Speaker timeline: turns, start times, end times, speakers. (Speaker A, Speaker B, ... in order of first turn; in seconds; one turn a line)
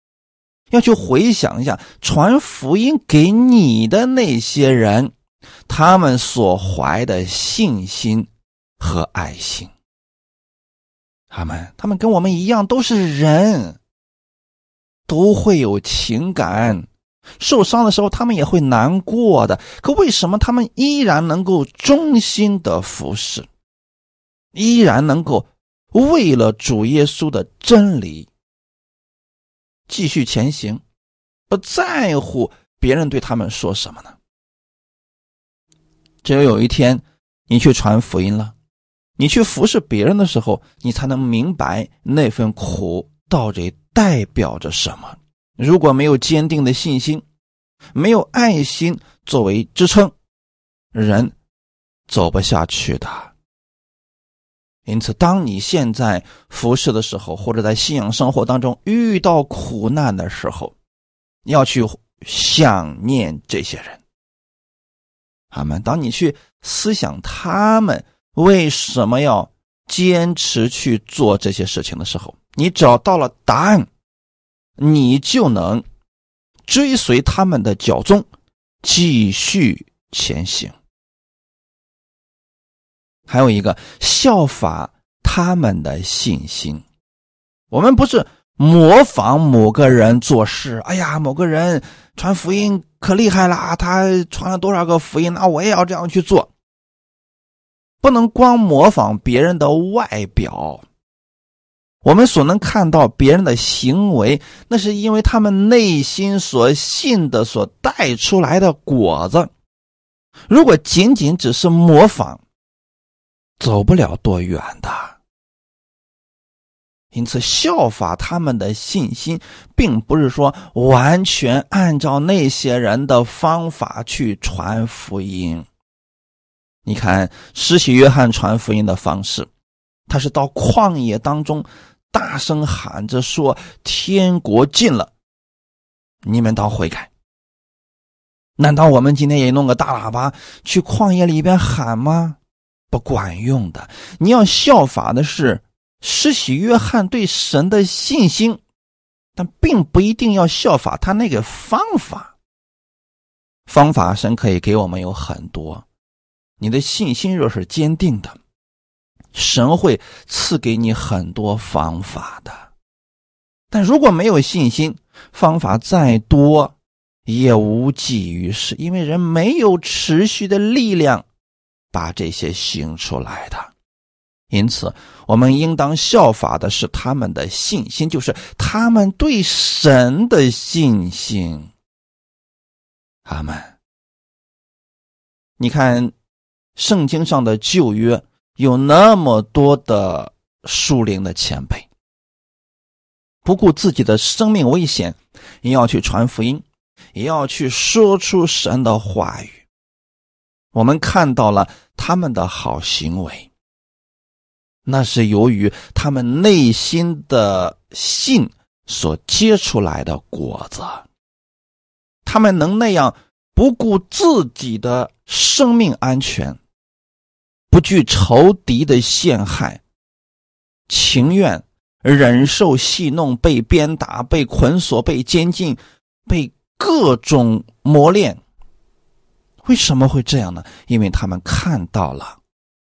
Speaker A: 0.7-5.1
Speaker A: 5.7-9.7
Speaker A: 11.3-13.8
Speaker A: 15.1-16.9
Speaker A: 17.4-23.5
Speaker A: 24.5-28.3
Speaker A: 29.9-30.8
Speaker A: 31.5-34.1
Speaker A: 36.2-38.5
Speaker A: 39.2-47.2
Speaker A: 47.9-50.1
Speaker A: 50.9-51.3
Speaker A: 52.1-53.3
Speaker A: 54.9-60.8
Speaker A: 61.4-64.0
Speaker A: 65.5-73.9
Speaker A: 74.8-75.8
Speaker A: 76.7-78.3
Speaker A: 78.8-80.8
Speaker A: 83.3-86.8
Speaker A: 87.7-96.5
Speaker A: 98.0-100.8
Speaker A: 102.0-109.5
Speaker A: 110.5-112.4
Speaker A: 113.6-115.2
Speaker A: 117.1-125.7
Speaker A: 126.8-129.5
Speaker A: 130.1-135.1
Speaker A: 136.2-137.1
Speaker A: 138.6-142.4
Speaker A: 142.9-148.6
Speaker A: 149.3-152.3
Speaker A: 153.7-155.8
Speaker A: 156.6-158.4
Speaker A: 159.3-162.7
Speaker A: 163.7-171.2
Speaker A: 171.9-173.7
Speaker A: 174.5-181.7
Speaker A: 183.2-183.8
Speaker A: 185.6-186.1
Speaker A: 186.8-191.9
Speaker A: 193.4-196.6
Speaker A: 197.1-199.7
Speaker A: 200.7-203.5
Speaker A: 204.8-211.1
Speaker A: 212.2-216.6
Speaker A: 217.7-219.8
Speaker A: 220.9-228.4
Speaker A: 229.6-232.4